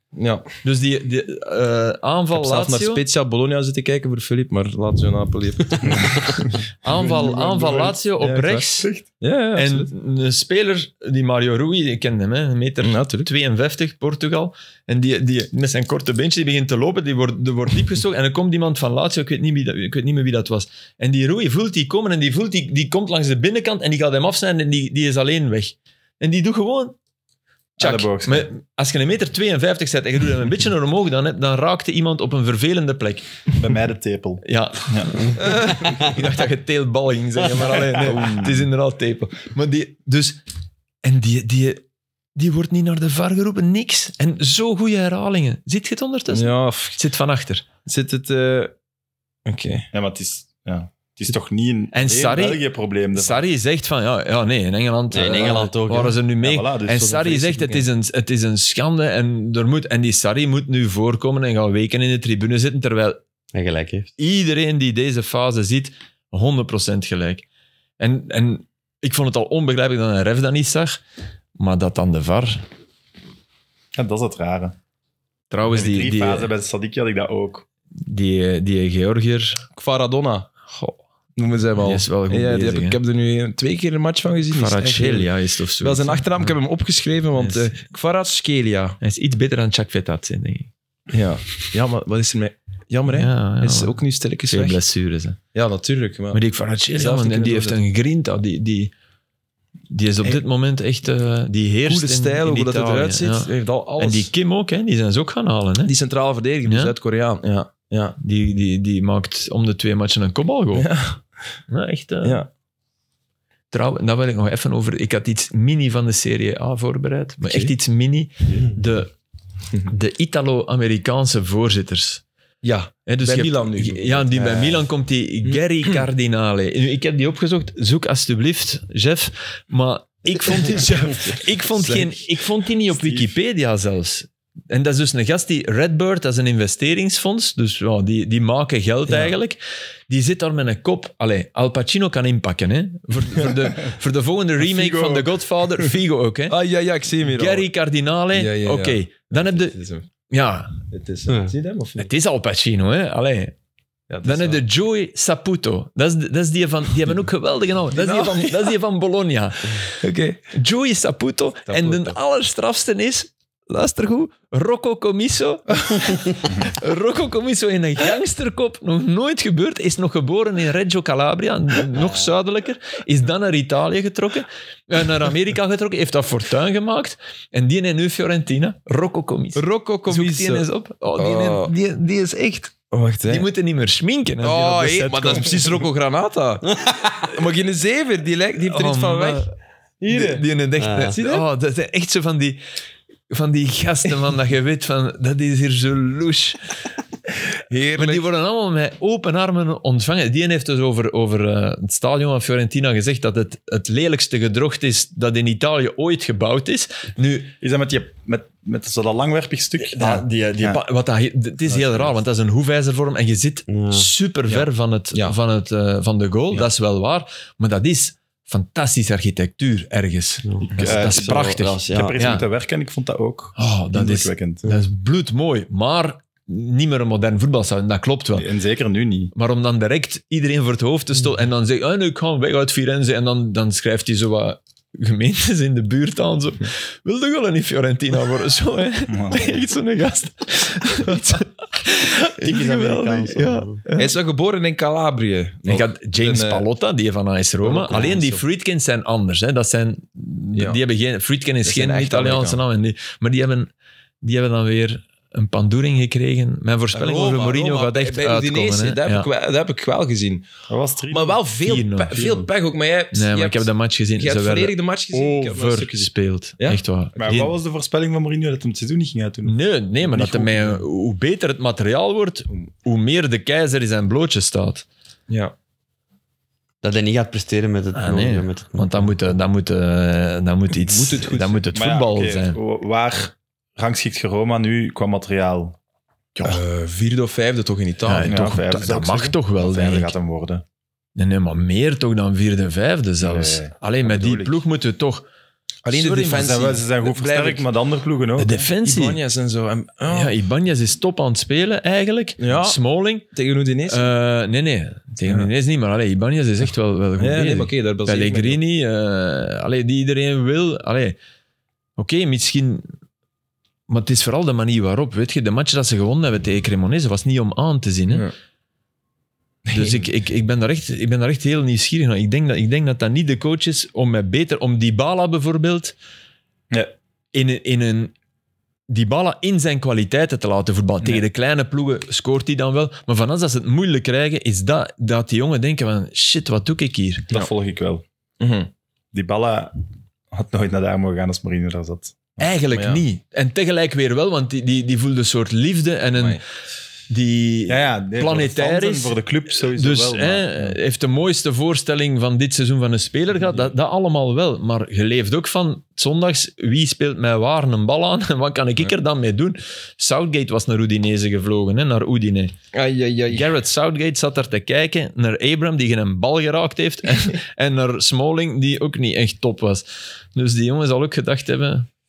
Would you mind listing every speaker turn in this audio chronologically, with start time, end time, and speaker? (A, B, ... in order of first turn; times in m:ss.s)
0:00.1-0:00.5 A
0:00.6-0:03.0 B
0:02.3-0:09.9 A
0:06.8-0:08.9 B
0:09.5-0:27.0 B
0:12.8-0:13.3 A
0:27.8-0:28.5 C
0:27.8-0:33.3 B
0:33.6-0:35.8 C
0:34.4-0:40.4 B
0:37.8-0:38.5 C
0:38.1-0:38.4 A
0:41.0-0:41.8 B
0:42.4-0:47.6 B
0:46.3-0:47.0 A
0:47.8-0:48.7 A
0:49.4-0:49.9 A
0:49.9-0:53.4 C
0:51.9-0:52.6 B
0:53.1-1:03.2 B
0:55.1-0:56.2 D
0:56.4-0:57.6 C
1:03.5-1:04.1 D
1:04.2-1:07.4 B
1:08.0-1:11.0 B
1:11.6-1:12.6 B
1:13.9-1:14.8 C
1:15.5-1:16.5 B
1:15.7-1:17.6 C
1:18.0-1:19.6 B
1:19.7-1:20.5 A
1:21.4-1:25.3 A
1:21.8-1:23.0 B
1:24.5-1:26.5 B
1:25.8-1:29.0 A
1:27.4-1:27.7 B
1:29.0-1:30.7 B
1:31.1-1:34.8 A
1:33.1-1:35.4 B
1:35.5-1:36.4 A
1:36.3-1:38.9 B
1:36.9-1:37.8 A
1:39.9-1:45.9 B
1:41.8-1:44.3 A
1:45.8-1:48.2 A
1:46.6-1:46.9 B
1:48.2-1:50.9 B
1:50.7-1:51.2 A
1:51.7-1:52.4 B
1:52.2-1:52.5 A
1:53.7-1:59.1 B
1:57.4-1:57.7 A
1:59.8-2:02.2 B
2:02.6-2:04.9 A
2:03.1-2:26.5 B
2:05.4-2:06.0 A
2:10.7-2:12.4 A
2:12.9-2:13.3 A
2:19.1-2:19.3 A
2:24.6-2:25.3 C
2:26.5-2:27.7 A
2:27.3-2:30.8 B
2:28.3-2:30.1 A
2:30.9-2:32.1 A
2:32.0-2:33.6 B
2:34.1-2:34.6 A
2:34.2-2:39.9 B
2:37.9-2:38.8 A
2:40.0-2:40.5 A
2:40.5-3:02.8 B
2:41.7-2:42.2 A
2:59.6-3:01.7 A
3:02.9-3:03.5 A
3:03.3-3:05.8 B
3:04.4-3:09.5 A
3:06.8-3:07.1 D
3:08.6-3:09.5 B
3:10.0-3:10.4 A
3:10.1-3:12.6 B
3:10.8-3:11.1 D
3:11.0-3:11.4 A
3:13.3-3:16.7 B
3:17.7-3:18.2 A
3:17.9-3:27.5 B
3:27.6-3:30.8 C
3:29.8-3:42.4 B
3:31.7-3:32.1 A
3:33.7-3:34.1 D
3:34.5-3:35.4 A
3:40.4-3:42.2 D
3:40.7-3:44.6 C
3:43.6-3:48.5 B
3:48.3-3:49.3 C
3:49.3-4:04.1 B
3:59.1-3:59.6 C
4:02.4-4:03.8 D
4:04.0-4:06.6 A
4:05.7-4:13.7 B
4:07.6-4:08.4 A
4:11.6-4:12.6 A
4:14.2-4:19.3 B
4:16.9-4:20.4 A
4:20.7-4:21.4 C
4:21.1-4:26.8 A
4:21.6-4:22.2 B
4:22.1-4:22.5 C
4:23.1-4:27.5 B
4:27.2-4:30.8 C
4:29.4-4:34.8 B
4:35.3-4:35.5 A
4:36.8-4:39.1 D
4:37.9-4:42.6 B
4:40.7-4:41.6 A
4:41.7-4:45.8 C
4:46.3-4:46.6 B
4:46.4-4:48.4 A
4:48.0-4:50.1 B
4:48.2-4:50.6 C
4:51.2-4:55.2 B
4:53.2-4:54.6 C
4:55.8-4:57.7 A
4:56.0-4:58.7 C
4:58.4-4:59.2 B
4:58.8-5:00.3 A
5:00.1-5:03.2 B
5:02.4-5:02.8 A
5:03.3-5:04.1 A
5:03.9-5:11.2 B
5:07.2-5:08.6 A
5:12.0-5:12.9 B
5:13.9-5:18.2 B
5:19.6-5:20.1 A
5:19.7-5:25.9 B
5:27.3-5:28.1 B
5:28.9-5:37.3 B
5:37.3-5:38.0 C
5:38.4-5:38.7 A
5:39.1-5:42.5 C
5:42.4-5:46.4 B
5:42.7-5:43.0 A
5:46.2-5:46.4 A
5:47.1-6:02.5 B
5:47.7-5:50.8 C
6:02.7-6:03.5 A
6:03.3-6:11.9 B